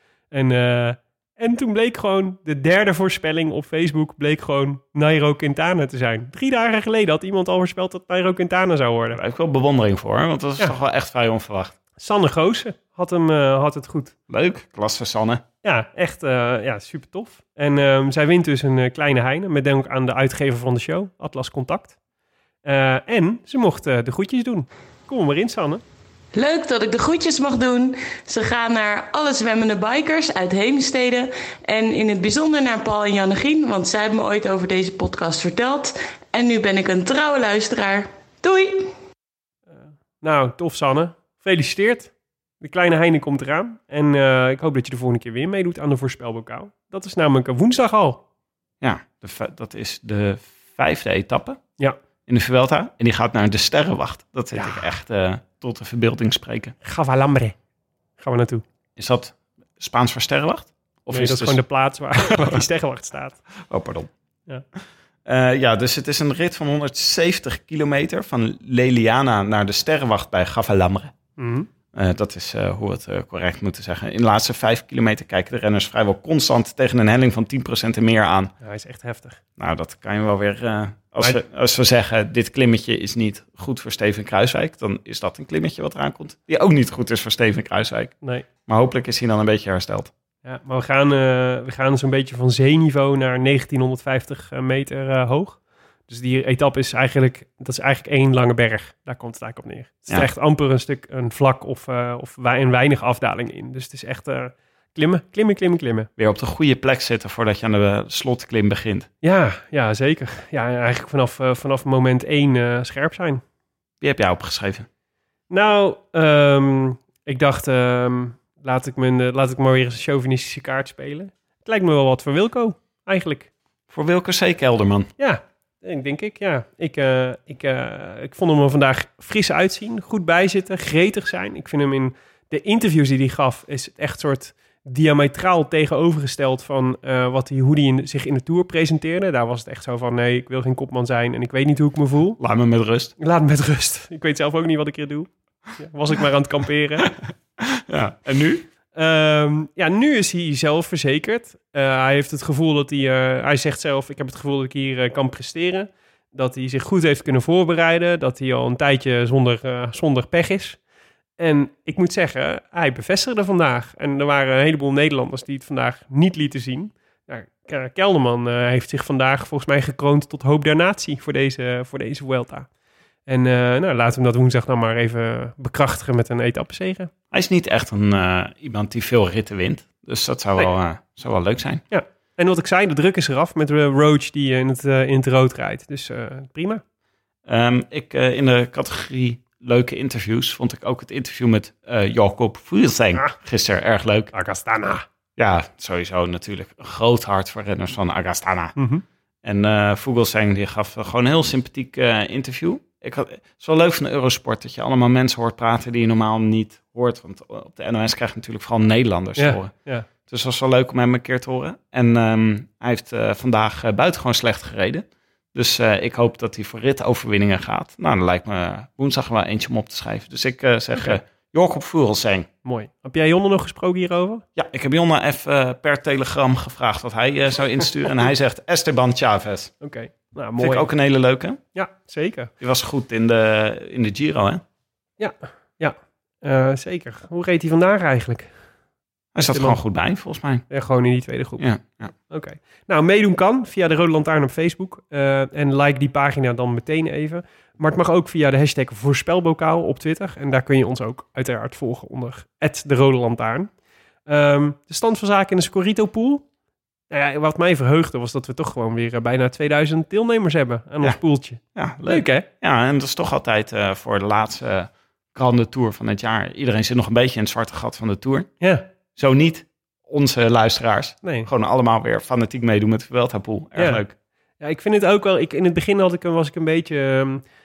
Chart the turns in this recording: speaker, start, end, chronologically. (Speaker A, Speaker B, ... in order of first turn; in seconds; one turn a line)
Speaker A: 0.3-9.2
Speaker B: 9.1-11.7
Speaker A: 12.0-14.1
Speaker B: 14.3-15.4
Speaker A: 15.6-21.9
Speaker A: 22.6-25.8
Speaker C: 26.3-38.9
Speaker A: 39.7-48.2
Speaker B: 48.8-51.6
Speaker B: 52.3-56.7
Speaker A: 54.5-54.9
Speaker A: 56.8-57.5
Speaker A: 58.2-58.6
Speaker B: 59.0-61.6
Speaker A: 61.1-63.4
Speaker B: 63.7-64.1
Speaker B: 65.2-71.1
Speaker A: 71.4-71.7
Speaker B: 71.9-78.5
Speaker A: 78.6-79.4
Speaker B: 79.6-88.1
Speaker B: 88.7-90.1
Speaker A: 90.4-106.1
Speaker B: 106.2-109.1
Speaker A: 109.2-113.4
Speaker B: 114.0-114.9
Speaker A: 115.5-123.5
Speaker B: 123.9-125.1
Speaker A: 125.2-142.4
Speaker B: 142.4-143.1
Speaker A: 143.2-147.1
Speaker B: 147.8-148.7
Speaker A: 148.9-160.8
Speaker A: 161.4-172.7
Speaker A: 173.3-177.1
Speaker B: 177.3-181.8
Speaker A: 181.9-186.8
Speaker B: 187.5-194.3
Speaker A: 194.3-195.0
Speaker B: 195.4-198.7
Speaker A: 198.8-199.0
Speaker B: 199.4-209.7
Speaker A: 209.4-210.1
Speaker B: 210.2-222.5
Speaker A: 220.9-221.2
Speaker A: 222.6-224.4
Speaker B: 224.6-229.7
Speaker A: 229.8-230.9
Speaker B: 230.6-231.6
Speaker A: 231.7-232.5
Speaker B: 232.6-234.6
Speaker A: 235.2-238.5
Speaker B: 239.3-240.6
Speaker A: 239.4-239.8
Speaker A: 240.7-241.7
Speaker B: 241.6-242.1
Speaker A: 242.3-253.7
Speaker A: 254.3-256.4
Speaker A: 257.1-262.5
Speaker B: 261.8-268.5
Speaker B: 269.2-274.1
Speaker A: 271.2-271.5
Speaker A: 273.8-274.0
Speaker A: 274.6-277.4